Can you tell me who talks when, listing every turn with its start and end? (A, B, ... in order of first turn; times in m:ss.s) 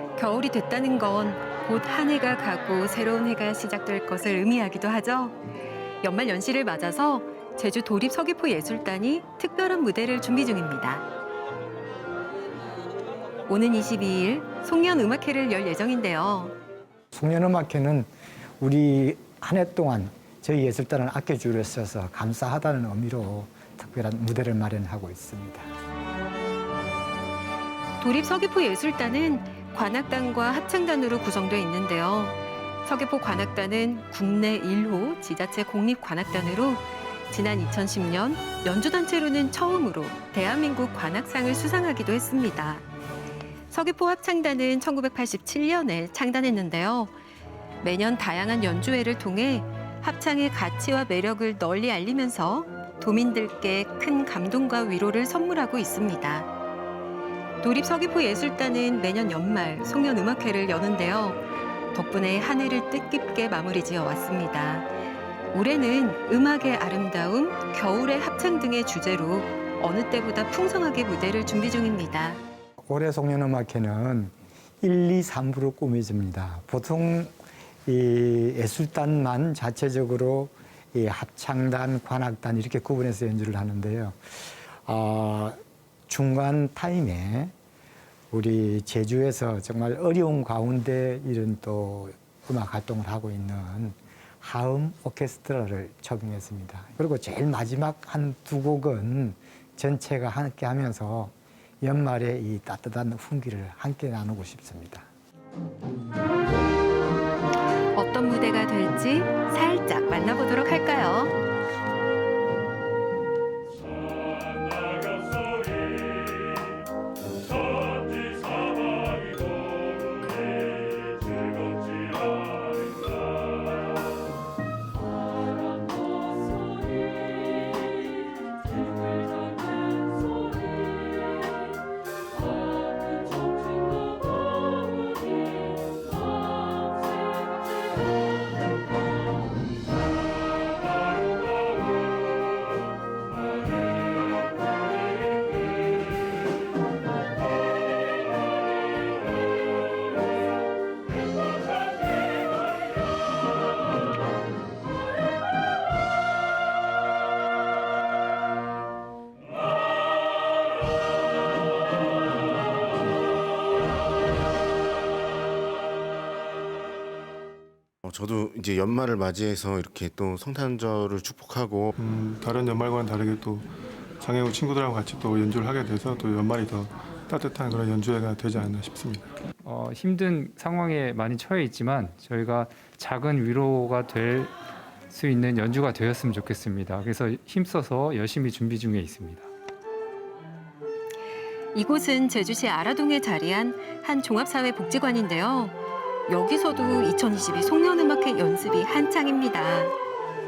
0:00.2-0:05.4 A
0:06.0-0:11.1 A
0:13.5-0:16.6 A
0:17.1-0:18.1 B
0:18.6-0:25.7 B
0:28.0-0:42.8 A
0:43.7-0:47.1 A
0:47.8-0:56.5 A
0:57.6-1:01.4 A
1:01.9-1:04.9 A
1:05.5-1:12.4 A
1:12.8-1:17.3 B
1:17.9-1:27.5 B
1:28.3-1:45.1 B
1:48.0-1:51.4 A
2:48.0-2:51.9 C
2:52.0-2:53.7 D
2:54.2-2:59.2 D
2:59.6-3:04.5 E
3:05.1-3:09.5 E
3:11.7-3:15.8 A
3:16.3-3:19.9 A